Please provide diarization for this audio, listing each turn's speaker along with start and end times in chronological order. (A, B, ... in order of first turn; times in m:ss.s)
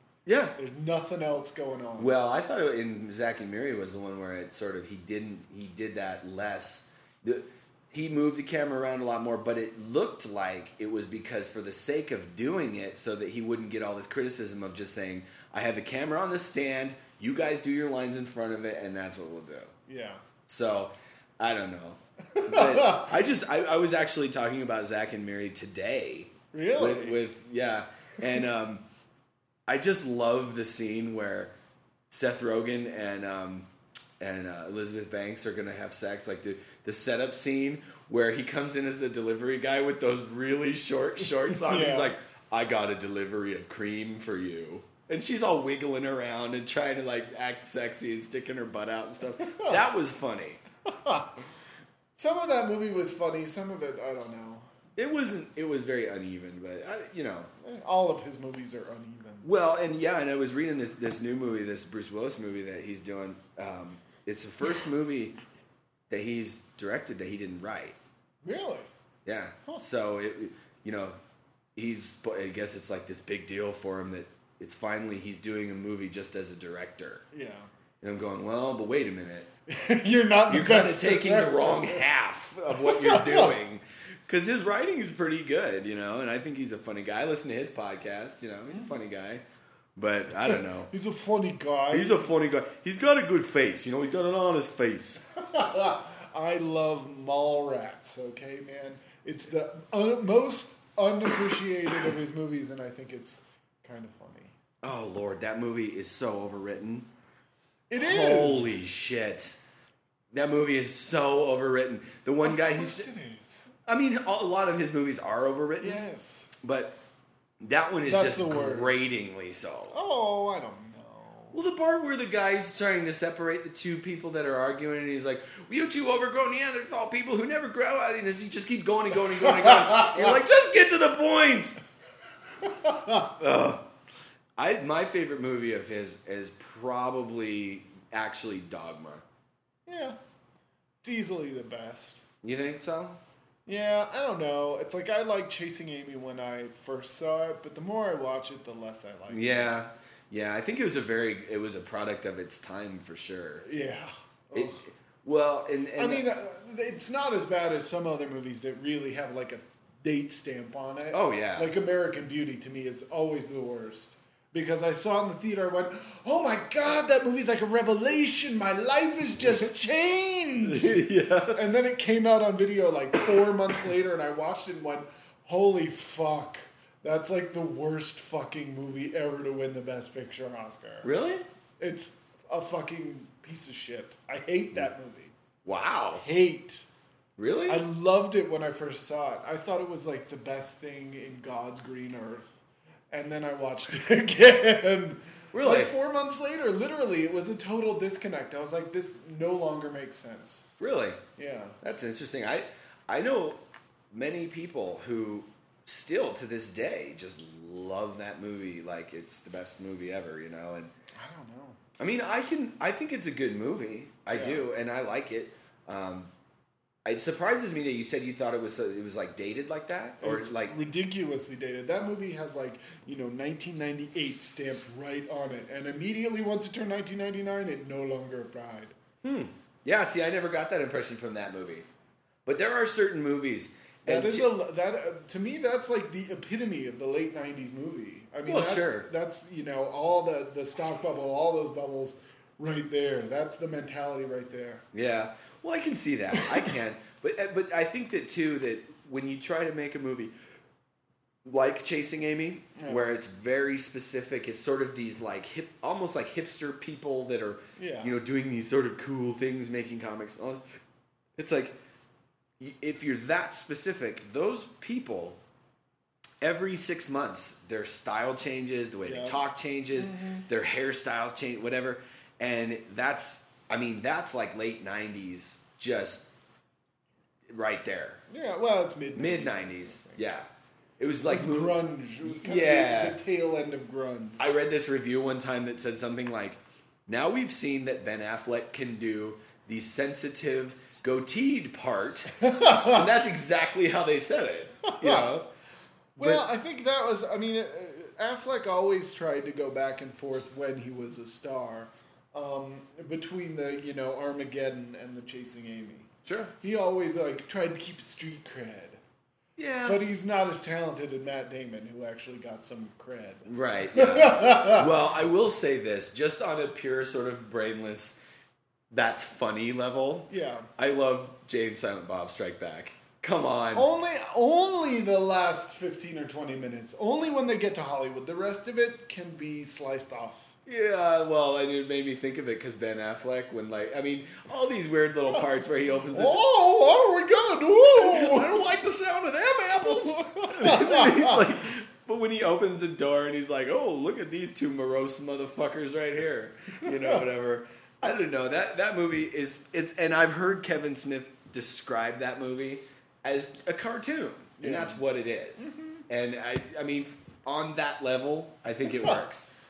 0:00.2-0:00.6 A
0:00.6-0:02.1 B
0:02.0-0:19.7 A
0:19.9-0:20.2 B
0:20.4-0:28.8 A
0:22.4-0:23.1 B
0:26.5-0:27.2 B
0:29.7-0:31.5 A
0:32.1-0:33.7 A
0:34.2-0:50.6 A
0:41.5-0:42.1 B
0:50.8-0:51.5 B
0:52.2-0:54.7 B
0:55.0-0:57.5 A
0:57.6-0:59.5 B
0:59.4-1:05.4 A
1:06.1-1:08.0 A
1:08.4-1:08.9 B
1:09.2-1:11.2 A
1:11.8-1:17.2 A
1:17.3-1:17.7 B
1:18.0-1:19.5 A
1:19.7-1:22.0 B
1:20.5-1:29.4 A
1:22.8-1:23.5 B
1:30.0-1:30.9 A
1:30.4-1:32.3 B
1:31.9-1:35.2 A
1:35.4-1:44.5 B
1:44.8-1:47.1 A
1:47.9-1:48.8 B
1:48.0-1:49.6 A
1:50.3-1:53.1 A
1:52.4-1:53.7 B
1:53.8-1:56.0 A
1:55.8-1:56.5 B
1:56.6-1:57.0 A
1:57.6-1:59.9 A
1:58.0-1:59.1 B
1:59.9-2:01.5 B
2:01.5-2:11.8 A
2:09.4-2:10.3 B
2:12.6-2:13.3 B
2:13.2-2:13.8 A
2:14.6-2:19.2 A
2:19.9-2:20.2 B
2:21.0-2:22.2 B
2:22.4-2:23.2 A
2:23.6-2:29.7 B
2:29.3-2:33.6 A
2:33.6-2:34.8 B
2:34.5-2:36.2 A
2:36.0-3:01.1 B
2:41.1-2:41.7 A
2:50.6-2:51.6 A
3:01.0-3:01.4 A
3:01.8-3:05.3 B
3:05.6-3:06.2 A
3:06.2-3:06.9 B
3:07.4-3:07.8 A
3:07.7-3:12.5 B
3:13.1-3:20.7 B
3:15.5-3:15.9 A
3:20.8-3:21.2 A
3:21.4-3:21.8 B
3:21.8-3:23.6 A
3:24.1-3:30.9 A
3:31.2-3:31.8 B
3:32.0-3:36.3 A
3:34.3-3:34.6 B
3:37.0-3:40.8 A
3:40.2-3:48.9 B
3:49.2-3:51.8 A
3:52.4-3:54.5 A
3:54.0-4:04.8 B
3:58.4-3:59.1 A
4:04.9-4:10.3 A
4:11.4-4:20.6 A
4:12.8-4:13.0 B
4:17.8-4:18.1 B
4:21.4-4:21.8 A
4:22.6-4:25.4 A
4:26.4-4:36.2 A
4:29.0-4:29.4 B
4:30.0-4:30.4 B
4:37.5-4:38.2 A
4:38.3-4:40.2 B
4:39.2-4:40.5 A
4:41.0-4:43.2 A
4:41.3-4:44.4 B
4:44.4-4:55.5 A
4:52.4-4:53.0 B
4:55.0-4:55.3 B
4:56.2-5:09.0 B
4:56.2-4:56.4 A
5:06.2-5:06.5 A
5:09.6-5:10.0 A
5:09.9-5:14.9 B
5:13.4-5:18.2 A
5:18.9-5:23.9 A
5:20.3-5:20.7 B
5:23.7-5:30.5 B
5:30.6-5:36.4 A
5:36.1-5:38.6 B
5:37.9-5:59.5 A
5:39.9-5:41.5 B
5:46.8-5:47.2 B
5:54.6-5:55.0 B
5:55.6-5:56.0 B